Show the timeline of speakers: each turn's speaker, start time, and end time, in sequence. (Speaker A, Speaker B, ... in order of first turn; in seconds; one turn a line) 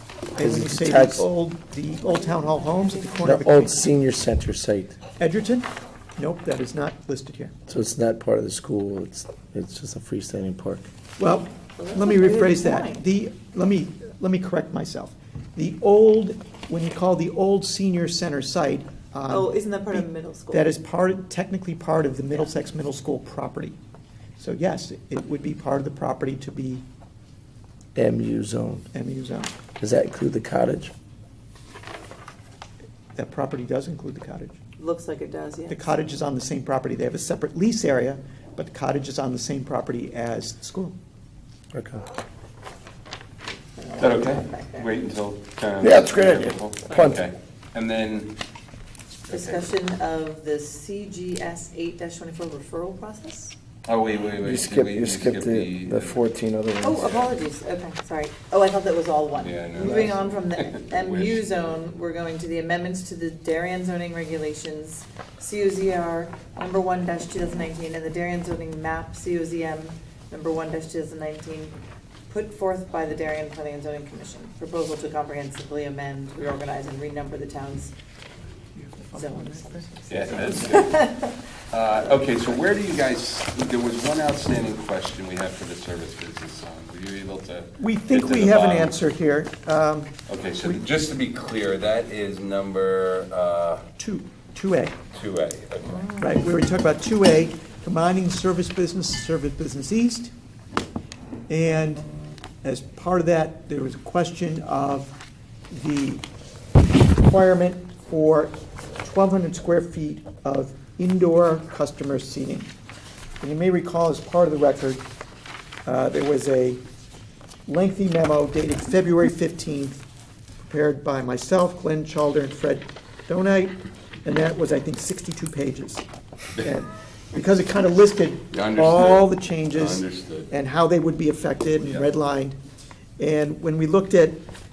Speaker A: 0.3-3.9
Speaker B: 0.4-1.3
Speaker C: 1.9-3.6
Speaker B: 3.2-5.0
Speaker A: 5.2-7.5
Speaker B: 7.7-10.9
Speaker A: 11.2-23.8
Speaker C: 11.8-13.1
Speaker C: 19.2-20.7
Speaker A: 24.4-26.8
Speaker B: 27.9-28.9
Speaker A: 28.9-29.6
Speaker B: 29.8-30.9
Speaker A: 33.1-34.6
Speaker C: 34.8-35.9
Speaker A: 35.7-41.0
Speaker B: 41.7-42.1
Speaker C: 43.8-45.0
Speaker D: 44.0-48.3
Speaker B: 45.8-47.2
Speaker D: 49.3-49.6
Speaker C: 49.3-53.6
Speaker D: 53.9-56.2
Speaker B: 54.4-57.3
Speaker C: 56.8-71.8
Speaker D: 59.4-61.6
Speaker C: 72.3-77.9
Speaker A: 78.8-81.0
Speaker C: 79.1-81.4
Speaker D: 80.1-81.0
Speaker D: 81.7-89.0
Speaker A: 87.8-90.8
Speaker D: 90.3-93.8
Speaker A: 94.0-95.0
Speaker D: 95.1-96.1
Speaker C: 96.0-96.4
Speaker A: 96.2-100.3
Speaker A: 101.5-102.1
Speaker A: 102.6-105.2
Speaker A: 105.7-106.2
Speaker A: 107.2-112.7
Speaker A: 113.4-115.0
Speaker A: 115.8-116.8
Speaker A: 117.7-120.0
Speaker A: 120.6-126.0
Speaker A: 126.6-132.6
Speaker D: 128.5-130.5
Speaker A: 133.2-134.4